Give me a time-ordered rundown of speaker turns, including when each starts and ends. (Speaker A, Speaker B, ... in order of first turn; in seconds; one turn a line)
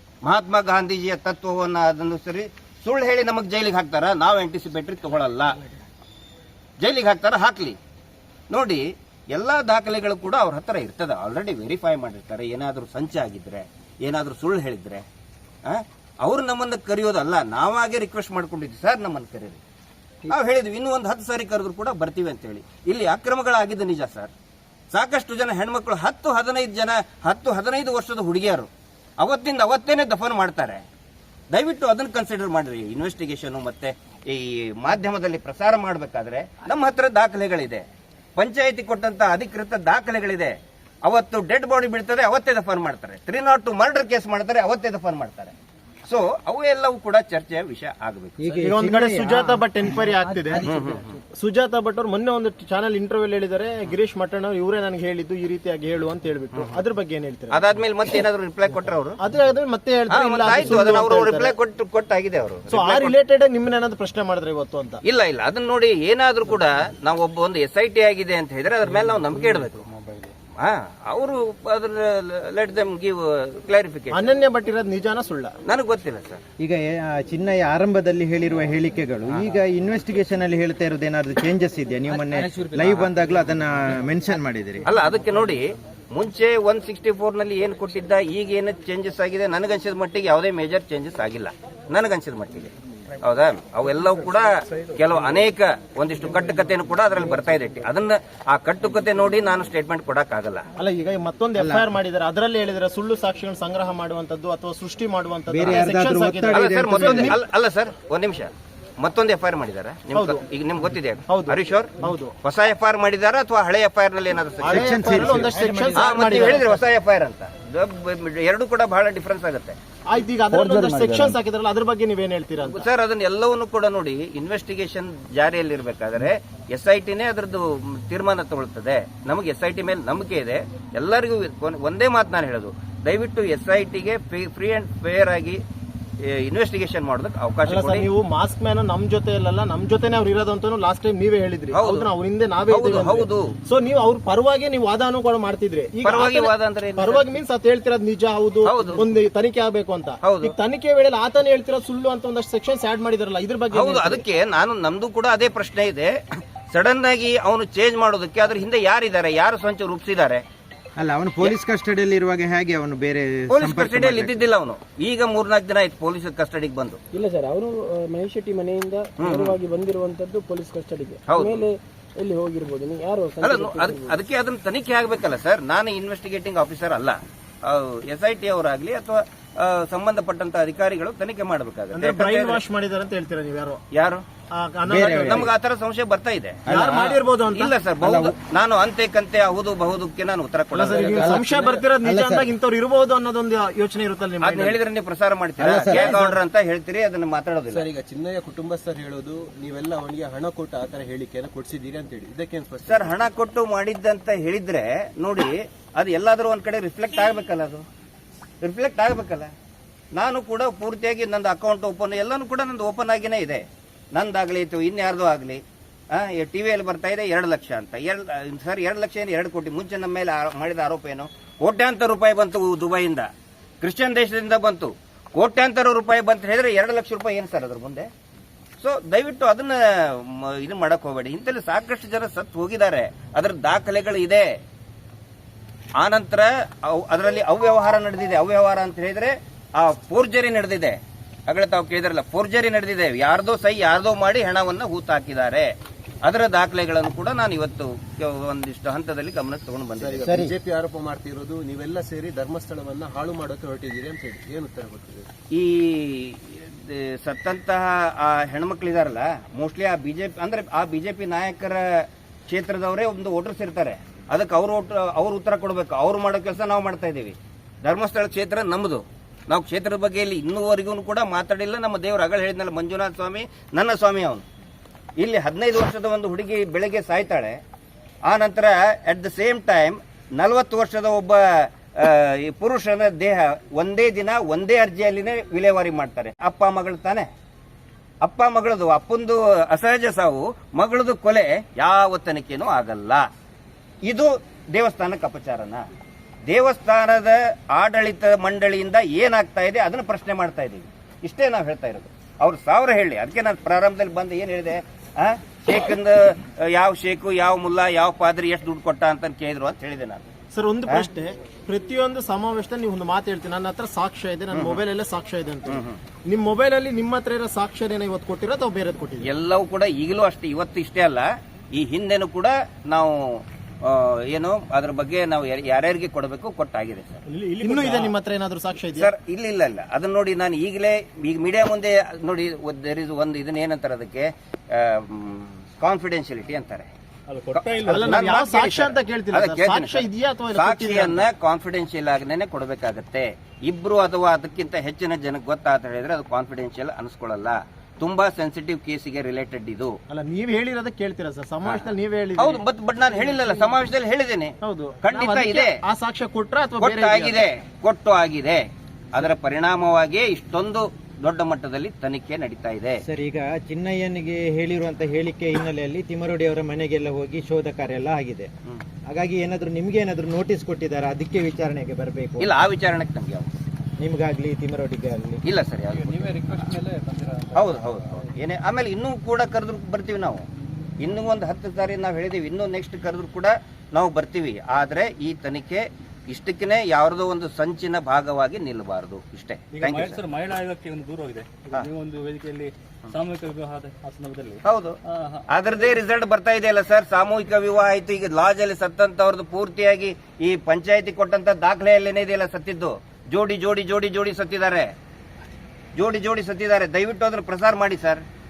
Speaker A: 0.2-5.6
Speaker A: 6.8-7.8
Speaker A: 8.5-15.0
Speaker A: 15.7-19.6
Speaker A: 20.3-24.3
Speaker A: 24.9-30.8
Speaker A: 31.5-37.8
Speaker A: 38.4-45.5
Speaker A: 46.1-48.4
Speaker B: 48.4-50.6
Speaker C: 48.6-50.6
Speaker D: 50.4-51.2
Speaker A: 50.6-51.1
Speaker C: 51.3-57.6
Speaker A: 57.5-59.2
Speaker C: 59.2-61.5
Speaker A: 60.1-63.1
Speaker C: 62.7-65.0
Speaker A: 65.0-69.9
Speaker A: 70.6-74.2
Speaker C: 74.1-75.5
Speaker A: 75.7-76.4
Speaker B: 76.6-84.9
Speaker A: 82.7-83.0
Speaker A: 84.8-100.7
Speaker C: 100.8-107.4
Speaker B: 101.5-101.8
Speaker B: 105.5-107.4
Speaker A: 106.5-119.8
Speaker C: 110.1-110.4
Speaker C: 111.3-112.3
Speaker C: 114.6-116.8
Speaker B: 114.7-116.6
Speaker C: 120.1-122.9
Speaker B: 120.5-121.3
Speaker A: 122.6-135.6
Speaker A: 136.2-138.1
Speaker C: 137.7-154.2
Speaker A: 141.7-142.1
Speaker A: 142.7-143.5
Speaker A: 146.0-147.3
Speaker A: 148.6-149.0
Speaker A: 150.2-150.6
Speaker A: 153.7-156.1
Speaker A: 156.7-160.4
Speaker B: 161.0-164.4
Speaker A: 163.5-167.0
Speaker E: 167.1-174.2
Speaker A: 169.2-169.6
Speaker A: 171.3-171.7
Speaker A: 173.4-182.6
Speaker C: 181.9-183.8
Speaker A: 183.9-184.2
Speaker C: 184.5-185.5
Speaker B: 184.8-185.5
Speaker A: 185.2-186.6
Speaker B: 186.7-187.2
Speaker C: 186.7-187.7
Speaker A: 187.5-191.2
Speaker B: 188.0-188.3
Speaker C: 190.7-194.8
Speaker D: 190.8-191.8
Speaker B: 191.1-191.4
Speaker B: 192.0-192.5
Speaker A: 194.4-197.8
Speaker B: 195.6-196.3
Speaker D: 197.7-203.2
Speaker A: 202.8-207.8
Speaker A: 208.6-209.5
Speaker A: 210.1-215.6
Speaker A: 216.1-223.3
Speaker A: 223.8-228.1
Speaker A: 228.8-234.5
Speaker A: 236.0-245.7
Speaker A: 246.2-250.3
Speaker D: 249.9-255.3
Speaker B: 250.2-250.5
Speaker A: 255.5-274.4
Speaker A: 275.2-277.6
Speaker A: 278.3-287.3
Speaker A: 288.2-293.2
Speaker A: 294.1-295.8
Speaker A: 296.5-310.2
Speaker C: 310.5-319.2
Speaker A: 314.5-314.8
Speaker A: 315.7-316.0
Speaker A: 319.2-327.2
Speaker F: 327.3-328.1
Speaker C: 327.6-329.1
Speaker A: 328.9-336.9
Speaker F: 337.3-338.2
Speaker A: 337.5-349.9
Speaker C: 337.9-341.2
Speaker C: 350.1-352.6
Speaker A: 351.6-355.7
Speaker C: 354.6-357.4
Speaker A: 356.8-363.0
Speaker B: 363.0-368.5
Speaker B: 369.1-372.5
Speaker A: 372.4-373.5
Speaker B: 374.0-375.4
Speaker A: 375.4-376.8
Speaker F: 376.0-378.0
Speaker A: 377.5-380.4
Speaker A: 381.0-390.2
Speaker F: 389.7-395.4
Speaker A: 394.6-395.0
Speaker A: 395.5-404.9
Speaker A: 405.9-408.2